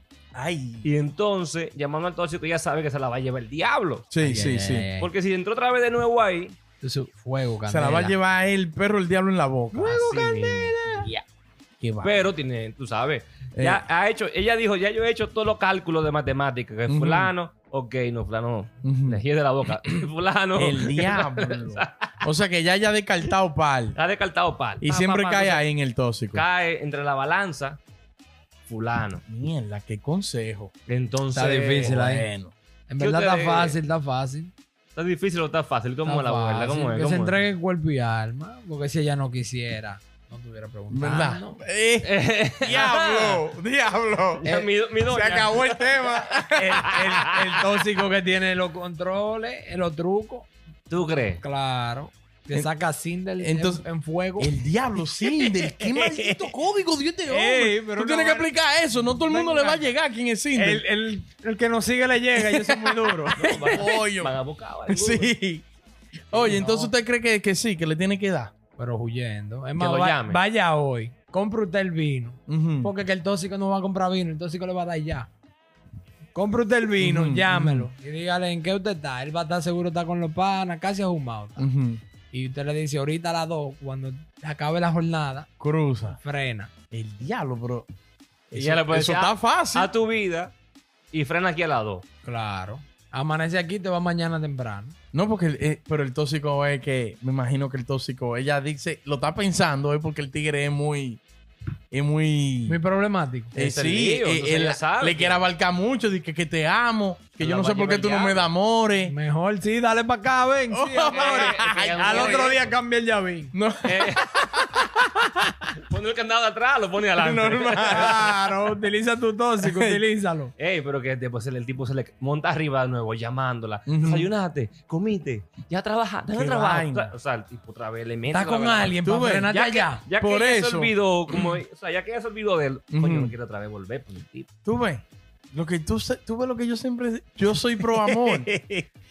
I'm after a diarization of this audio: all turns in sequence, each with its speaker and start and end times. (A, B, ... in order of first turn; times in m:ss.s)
0:00.3-0:00.9 A
0:00.8-0:04.1 B
0:04.1-0:04.9 A
0:04.2-0:05.1 C
0:05.0-0:06.6 B
0:06.8-0:08.2 C
0:07.7-0:10.0 A
0:09.7-0:11.2 C
0:09.8-0:11.1 B
0:11.8-0:12.3 A
0:12.0-0:22.3 B
0:13.6-0:13.8 A
0:16.9-0:17.3 A
0:18.8-0:19.2 A
0:20.6-0:24.0 A
0:23.9-0:25.6 B
0:24.8-0:26.4 A
0:26.3-0:27.8 B
0:28.7-0:29.2 B
0:29.2-0:30.7 A
0:30.9-0:32.0 B
0:31.3-0:32.3 C
0:31.9-0:32.5 A
0:32.9-0:34.5 C
0:33.0-0:33.8 B
0:35.0-0:37.5 B
0:36.0-0:41.6 C
0:40.9-0:44.5 A
0:42.0-0:43.4 B
0:44.4-0:46.0 B
0:45.1-0:46.9 A
0:46.5-0:50.5 C
0:46.8-0:47.6 B
0:50.9-0:51.4 B
0:51.4-0:56.5 C
0:53.4-0:53.8 A
0:54.4-1:00.8 A
0:57.3-0:59.9 C
1:00.6-1:03.9 C
1:02.4-1:04.3 A
1:03.4-1:05.3 B
1:04.9-1:05.7 A
1:06.3-1:08.5 A
1:06.3-1:06.9 C
1:08.8-1:15.3 C
1:09.8-1:10.4 B
1:12.5-1:12.9 A
1:16.4-1:21.7 C
1:17.0-1:17.9 A
1:21.6-1:22.0 A
1:22.3-1:25.5 C
1:25.6-1:26.2 A
1:26.1-1:26.7 C
1:26.9-1:27.9 A
1:28.5-1:29.9 A
1:28.6-1:30.5 B
1:31.1-1:32.0 B
1:32.2-1:35.0 C
1:35.1-1:41.2 A
1:41.9-1:42.8 A
1:42.7-1:43.5 C
1:43.5-1:49.1 A
1:43.6-1:45.5 B
1:47.4-1:48.5 B
1:49.0-1:53.5 C
1:50.7-1:52.6 A
1:51.1-1:52.8 B
1:53.5-1:54.2 A
1:53.8-1:54.3 B
1:54.5-1:55.7 C
1:55.8-1:58.3 B
1:57.2-1:58.5 A
1:57.8-2:00.5 C
1:59.6-2:00.0 A
2:00.6-2:09.0 B
2:03.9-2:04.3 A
2:06.3-2:07.2 A
2:08.3-2:10.0 C
2:09.0-2:11.6 A
2:09.5-2:14.5 B
2:12.9-2:13.3 A
2:14.6-2:18.5 A
2:18.1-2:18.8 C